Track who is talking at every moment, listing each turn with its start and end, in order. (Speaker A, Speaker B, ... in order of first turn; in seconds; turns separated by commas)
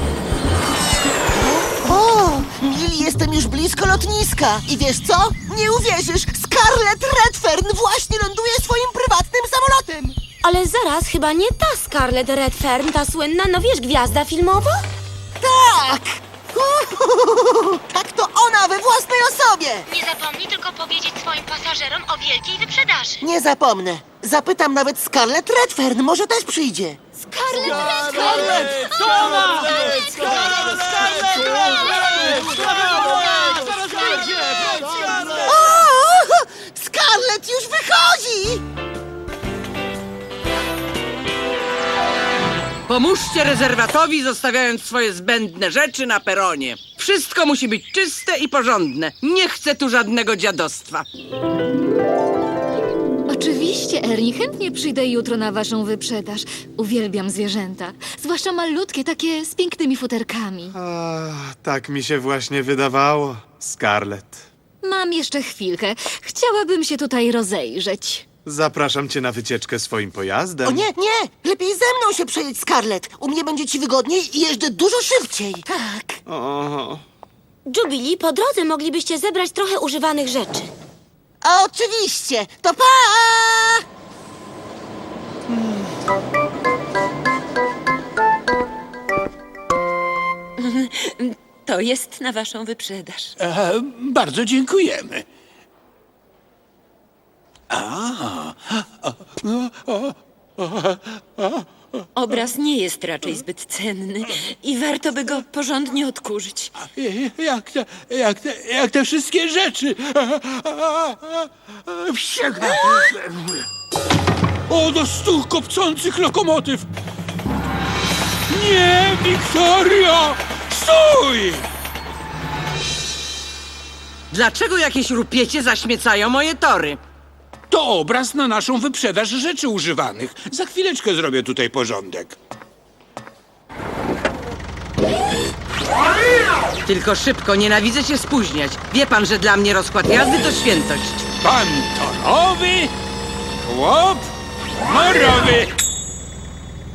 Speaker A: 1.5-10.2, Speaker B: 10.4-14.8, Speaker A: 15.4-19.9, Speaker B: 19.9-23.2, Speaker A: 23.2-27.0, Speaker B: 27.2-30.4, Speaker A: 28.3-28.6, Speaker A: 35.4-38.6, Speaker C: 42.9-51.0, Speaker D: 53.3-60.8, Speaker E: 60.7-64.4, Speaker D: 64.8-68.2, Speaker E: 68.5-70.8, Speaker A: 70.7-76.2, Speaker E: 76.3-77.0, Speaker B: 77.7-80.7, Speaker A: 81.4-83.8, Speaker F: 91.7-93.2, Speaker G: 93.4-95.2, Speaker G: 97.7-98.6, Speaker G: 99.4-100.1, Speaker F: 102.2-106.6, Speaker G: 106.8-111.2, Speaker G: 111.9-113.5, Speaker G: 114.7-116.9, Speaker G: 118.5-121.7, Speaker C: 124.3-127.0, Speaker G: 127.7-132.3, Speaker C: 136.8-141.2, Speaker G: 141.4-142.9, Speaker G: 143.6-144.3, Speaker G: 144.9-145.7